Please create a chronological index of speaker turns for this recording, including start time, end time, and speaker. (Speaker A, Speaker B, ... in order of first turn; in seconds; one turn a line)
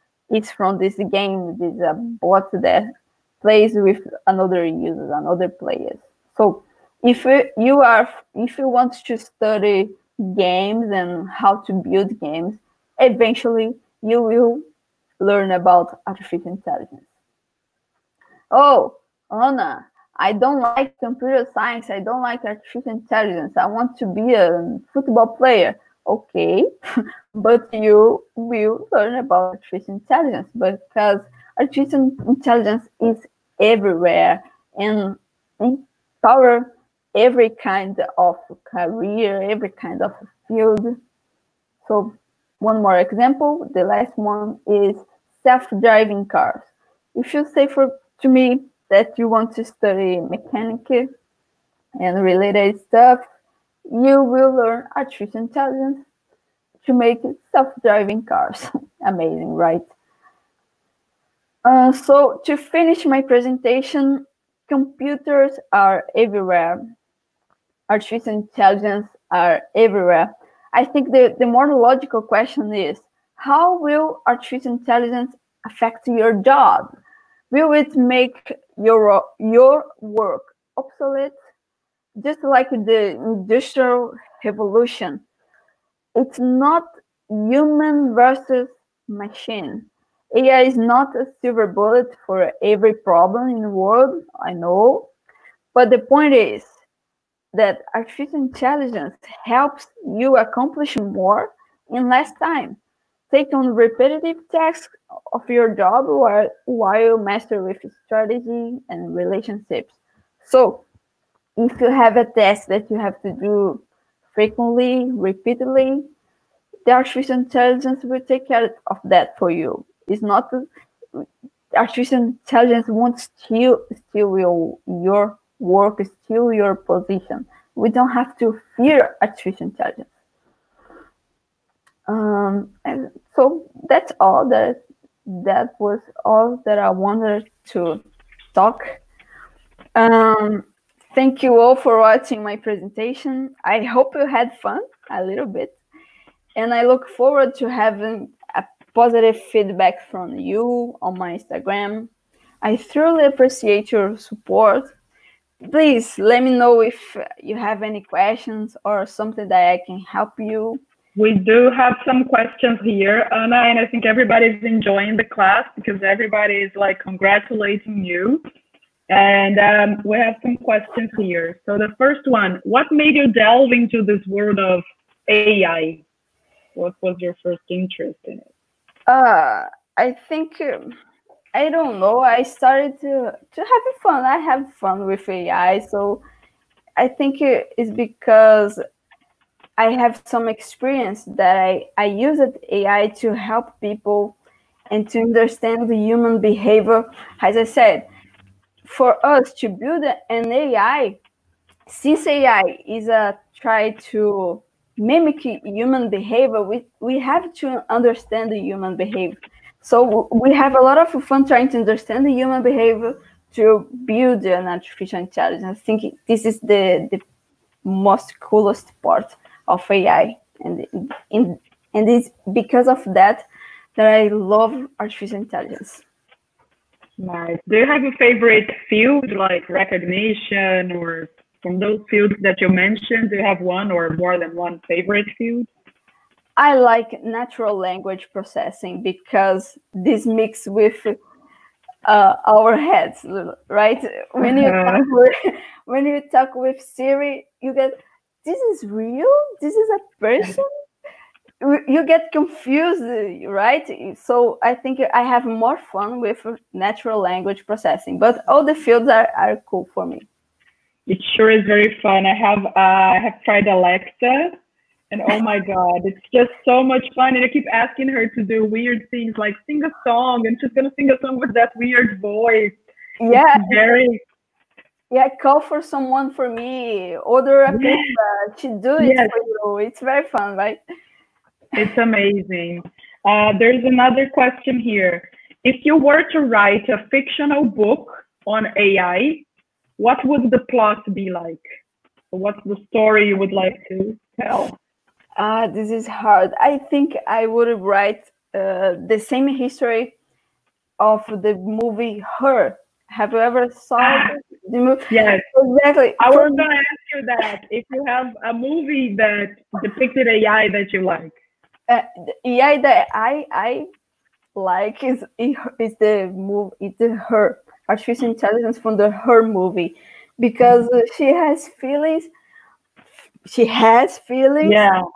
Speaker A: 0.3-14.7
Speaker A: 15.2-17.0
Speaker A: 18.5-41.0
Speaker A: 41.9-51.1
Speaker A: 52.0-53.2
Speaker A: 53.9-56.0
Speaker A: 56.8-59.9
Speaker A: 61.6-66.8
Speaker A: 67.9-76.9
Speaker A: 77.5-81.3
Speaker A: 82.2-85.2
Speaker A: 86.2-95.1
Speaker A: 95.7-96.7
Speaker A: 97.5-102.8
Speaker A: 103.3-110.8
Speaker A: 111.6-113.8
Speaker A: 114.3-116.1
Speaker A: 116.9-120.7
Speaker A: 121.8-130.1
Speaker A: 132.1-138.0
Speaker A: 138.5-139.0
Speaker A: 140.0-145.8
Speaker A: 146.6-152.1
Speaker A: 152.6-154.9
Speaker A: 155.6-160.8
Speaker B: 161.2-168.4
Speaker B: 169.1-176.0
Speaker B: 176.8-178.5
Speaker A: 179.1-180.9
Speaker A: 181.5-186.2
Speaker A: 187.0-188.8
Speaker A: 189.8-194.4
Speaker A: 194.9-198.1
Speaker A: 198.8-201.2
Speaker A: 201.9-217.2
Speaker A: 217.8-226.0
Speaker B: 227.2-235.7
Speaker A: 236.6-241.2
Speaker A: 242.1-250.7
Speaker B: 244.4-245.1
Speaker A: 251.6-260.3
Speaker B: 261.1-264.6
Speaker B: 265.1-272.8
Speaker A: 273.2-273.9
Speaker B: 273.3-274.2
Speaker A: 275.1-280.8
Speaker B: 277.7-278.1
Speaker B: 279.0-279.3
Speaker B: 281.8-289.4
Speaker B: 290.0-291.6
Speaker B: 292.3-294.8
Speaker A: 295.4-300.1
Speaker A: 301.0-306.7
Speaker B: 304.0-304.3
Speaker B: 305.1-305.5
Speaker B: 306.2-311.4
Speaker A: 311.9-313.9
Speaker A: 314.6-322.3
Speaker A: 323.4-324.8
Speaker B: 324.6-325.0